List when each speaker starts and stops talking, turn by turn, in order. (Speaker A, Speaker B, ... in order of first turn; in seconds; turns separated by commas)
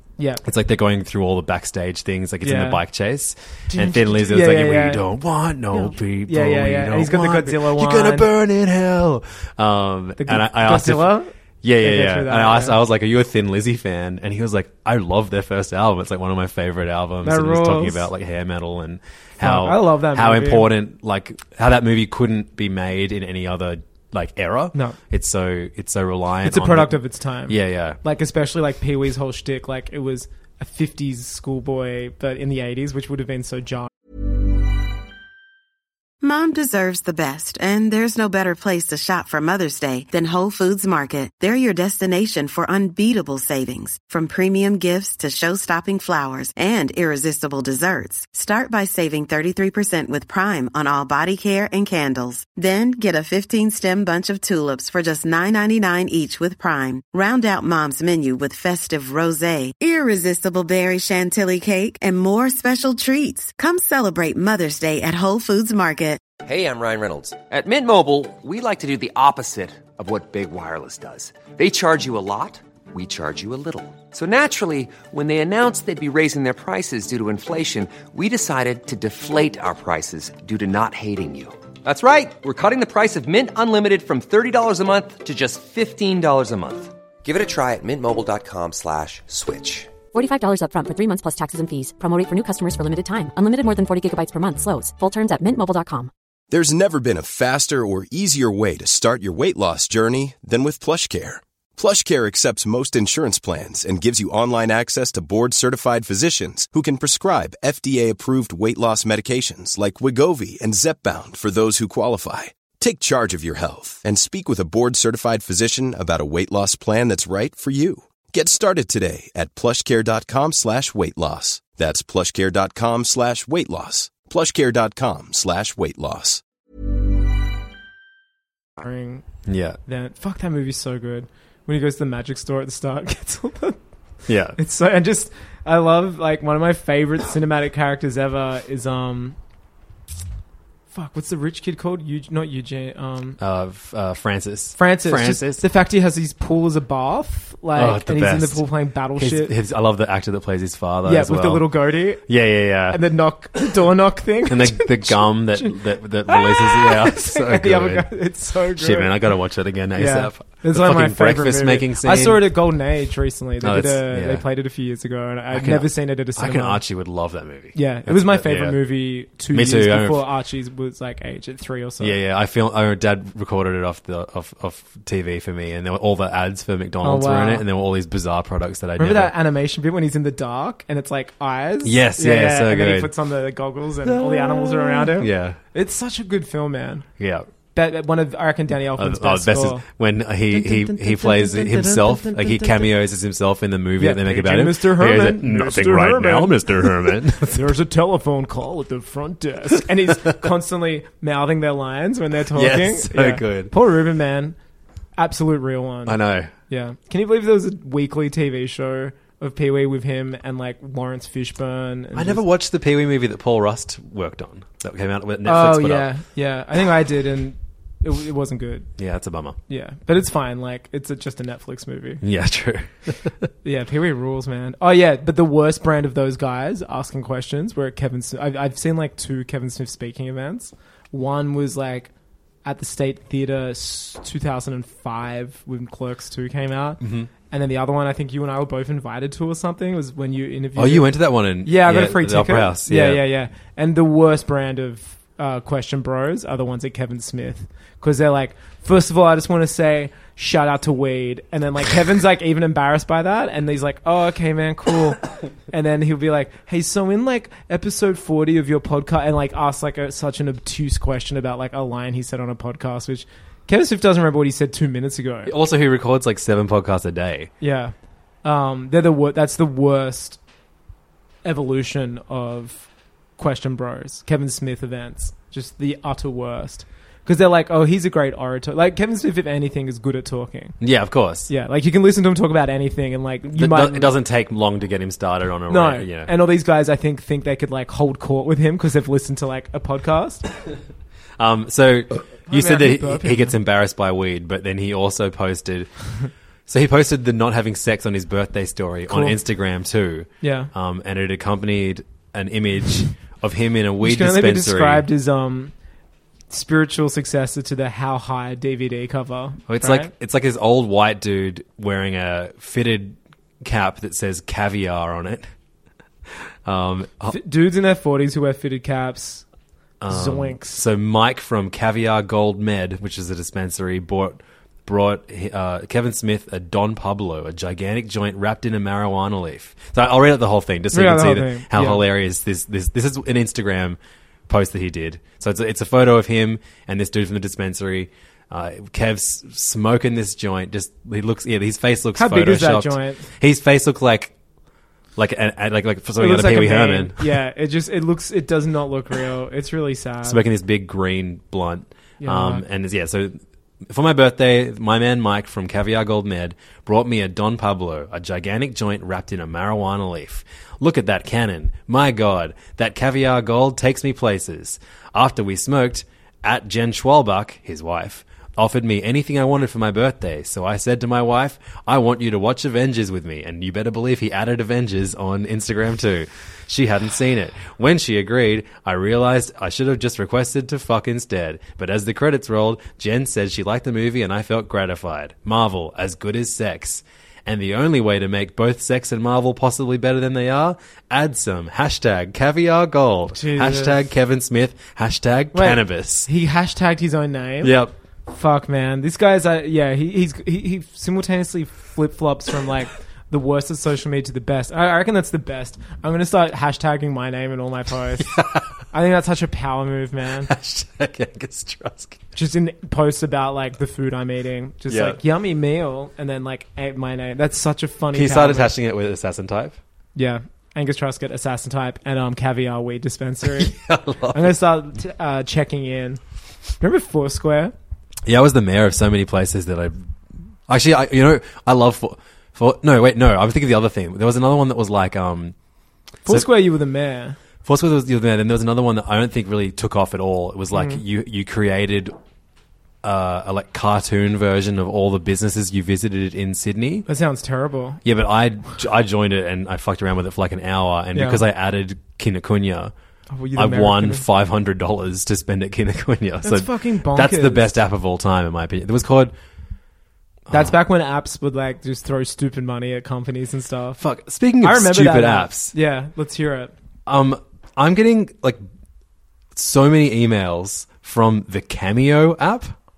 Speaker A: 0.2-0.4, Speaker B: 0.4-28.0, Speaker A: 2.4-2.8, Speaker A: 3.7-5.0, Speaker A: 5.7-8.3, Speaker A: 10.2-12.8, Speaker A: 17.2-18.1, Speaker A: 19.4-20.7, Speaker A: 26.4-33.9, Speaker C: 36.2-66.2, Speaker D: 66.4-89.9, Speaker E: 90.1-96.1, Speaker F: 96.5-126.4, Speaker A: 128.8-129.2, Speaker B: 129.4-129.8, Speaker A: 129.8-133.8, Speaker B: 134.3-134.6, Speaker A: 134.6-139.3, Speaker A: 140.9-143.4, Speaker B: 143.4-145.6, Speaker A: 144.8-149.5, Speaker B: 147.7-148.7, Speaker B: 149.2-151.7, Speaker A: 151.0-152.3, Speaker B: 152.2-153.0, Speaker A: 152.9-159.2, Speaker B: 154.5-158.2, Speaker B: 158.8-162.5, Speaker A: 159.9-166.8, Speaker B: 163.6-164.4, Speaker B: 165.5-168.8, Speaker A: 167.7-172.2, Speaker B: 169.5-170.2, Speaker B: 172.0-179.3, Speaker A: 177.0-177.6, Speaker A: 179.0-187.1, Speaker B: 181.8-183.1, Speaker B: 184.0-185.6, Speaker B: 187.2-187.5, Speaker A: 187.7-189.8, Speaker B: 188.9-197.7, Speaker A: 190.5-192.9, Speaker A: 194.0-204.6, Speaker B: 202.5-203.7, Speaker A: 205.2-206.2, Speaker B: 206.1-206.5, Speaker A: 206.7-212.4, Speaker B: 212.1-216.1, Speaker A: 215.4-218.9, Speaker B: 219.0-219.6, Speaker A: 219.7-222.2, Speaker B: 222.2-223.5, Speaker A: 223.6-232.1, Speaker A: 232.6-241.1, Speaker B: 237.0-237.3, Speaker B: 240.8-243.2, Speaker A: 241.6-265.5, Speaker B: 265.4-267.5, Speaker A: 267.6-270.4, Speaker A: 271.4-280.8, Speaker B: 280.8-281.5, Speaker A: 281.5-284.1, Speaker B: 283.5-286.3, Speaker A: 285.7-290.4, Speaker B: 291.4-295.9, Speaker A: 292.5-293.6, Speaker B: 296.7-305.1, Speaker A: 299.1-299.4, Speaker A: 300.4-300.7, Speaker A: 304.0-305.7, Speaker A: 306.5-310.1, Speaker B: 309.7-315.5, Speaker B: 316.6-317.4, Speaker A: 317.3-319.4, Speaker B: 320.0-344.3, Speaker A: 320.1-320.8, Speaker A: 330.9-332.0, Speaker A: 342.1-343.2, Speaker B: 345.1-347.3, Speaker A: 346.2-350.4, Speaker B: 350.2-396.3, Speaker A: 352.2-352.6, Speaker A: 393.3-394.0, Speaker A: 395.5-397.7, Speaker B: 397.6-397.9, Speaker A: 398.3-408.3, Speaker B: 408.2-408.7, Speaker A: 408.9-410.5, Speaker B: 410.4-412.2, Speaker A: 412.3-418.7, Speaker B: 414.9-415.2, Speaker B: 418.1-419.8, Speaker A: 420.1-423.7, Speaker B: 423.4-424.6, Speaker A: 424.3-426.2, Speaker A: 426.8-427.7, Speaker B: 428.2-430.0, Speaker B: 430.7-435.5, Speaker A: 436.2-437.4, Speaker B: 437.6-442.1, Speaker A: 440.7-441.0, Speaker B: 443.0-447.1, Speaker A: 447.1-448.0, Speaker B: 448.0-452.9, Speaker A: 451.1-451.4, Speaker A: 453.3-454.2, Speaker B: 453.5-459.3, Speaker A: 456.4-457.8, Speaker B: 460.5-460.7, Speaker A: 460.5-464.0, Speaker B: 464.0-465.7, Speaker A: 464.6-466.7, Speaker B: 467.1-468.6, Speaker B: 469.5-472.7